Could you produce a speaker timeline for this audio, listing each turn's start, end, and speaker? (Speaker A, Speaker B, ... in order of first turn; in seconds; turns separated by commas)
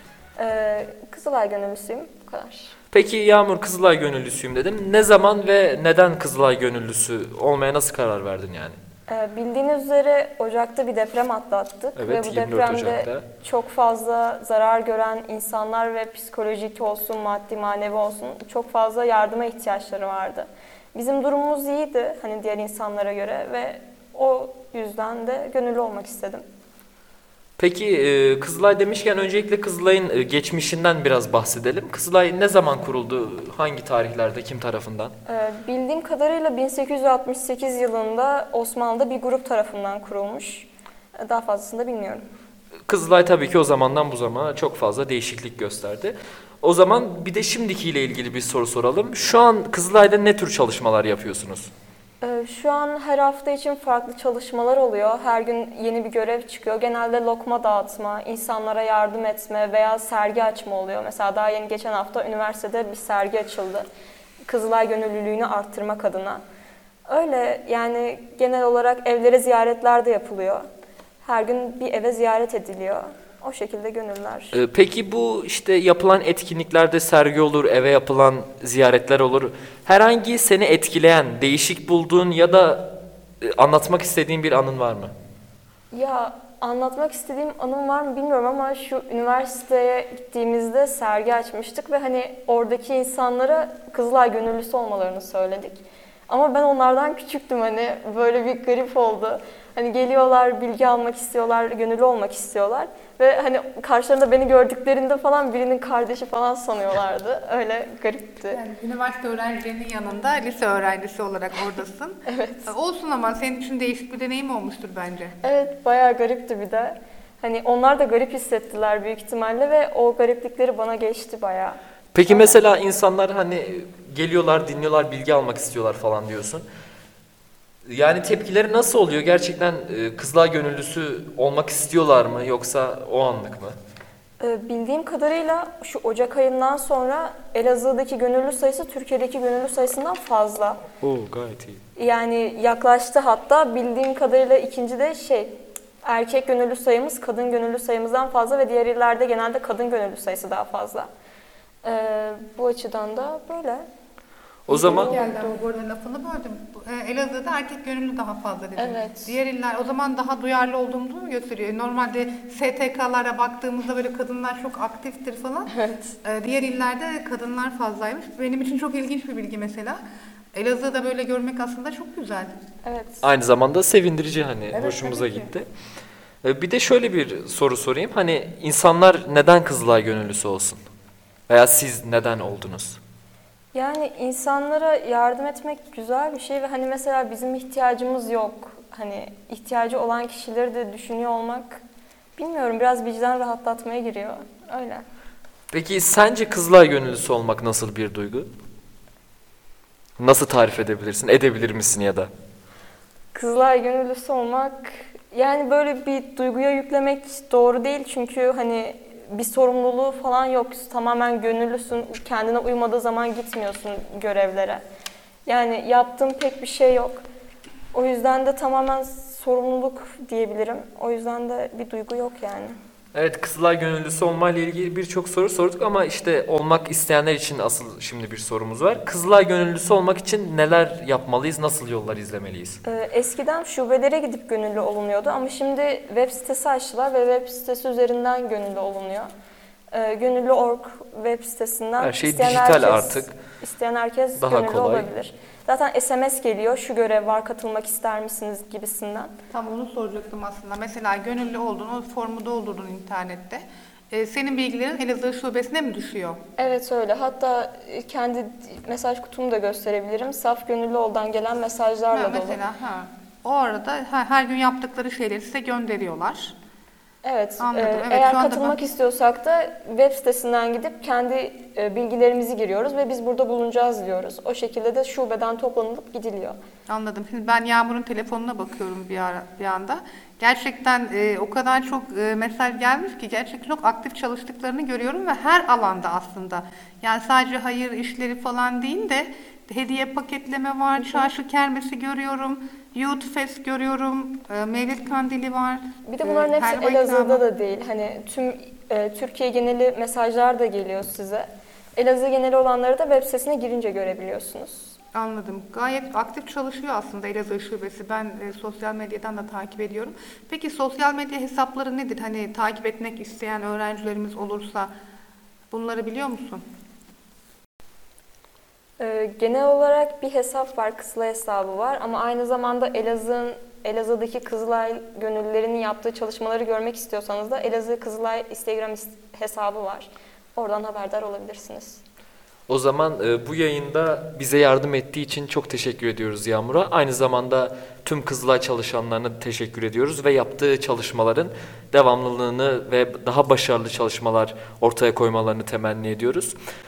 Speaker A: 0.4-2.8, Speaker B: 2.9-8.8, Speaker A: 9.1-26.4, Speaker B: 12.0-13.2, Speaker B: 27.6-35.1, Speaker A: 35.3-40.7, Speaker A: 41.2-42.3, Speaker B: 42.9-51.7, Speaker A: 52.2-63.9, Speaker A: 64.5-66.4, Speaker A: 67.1-70.7, Speaker A: 71.2-74.6, Speaker B: 74.5-85.1, Speaker A: 85.9-108.6, Speaker C: 108.5-115.3, Speaker A: 112.3-112.7, Speaker A: 115.4-121.8, Speaker B: 122.1-126.7, Speaker A: 122.3-122.6, Speaker B: 127.9-133.8, Speaker A: 134.4-140.8, Speaker B: 141.0-141.8, Speaker A: 142.0-151.1, Speaker A: 151.8-153.8, Speaker B: 154.7-155.2, Speaker A: 154.7-155.6, Speaker C: 154.7-170.0, Speaker A: 158.8-159.3, Speaker A: 165.8-166.1, Speaker C: 170.5-172.5, Speaker A: 172.8-173.2, Speaker B: 173.2-175.7, Speaker C: 174.7-175.5, Speaker B: 176.4-180.8, Speaker B: 181.5-183.0, Speaker A: 183.7-191.8, Speaker A: 192.4-195.0, Speaker B: 195.7-198.5, Speaker B: 200.2-202.3, Speaker A: 203.3-214.8, Speaker A: 215.5-217.2, Speaker A: 217.9-222.8, Speaker B: 223.1-232.8, Speaker A: 232.8-239.3, Speaker A: 239.9-249.3, Speaker B: 242.0-243.3, Speaker B: 244.4-245.1, Speaker C: 249.5-256.4, Speaker A: 256.6-262.6, Speaker C: 262.1-266.6, Speaker A: 267.2-276.6, Speaker C: 267.6-268.8, Speaker C: 276.9-297.4, Speaker A: 291.0-291.3, Speaker A: 296.1-304.9, Speaker C: 305.1-314.9, Speaker C: 315.7-316.6, Speaker A: 319.0-332.0, Speaker B: 332.7-346.6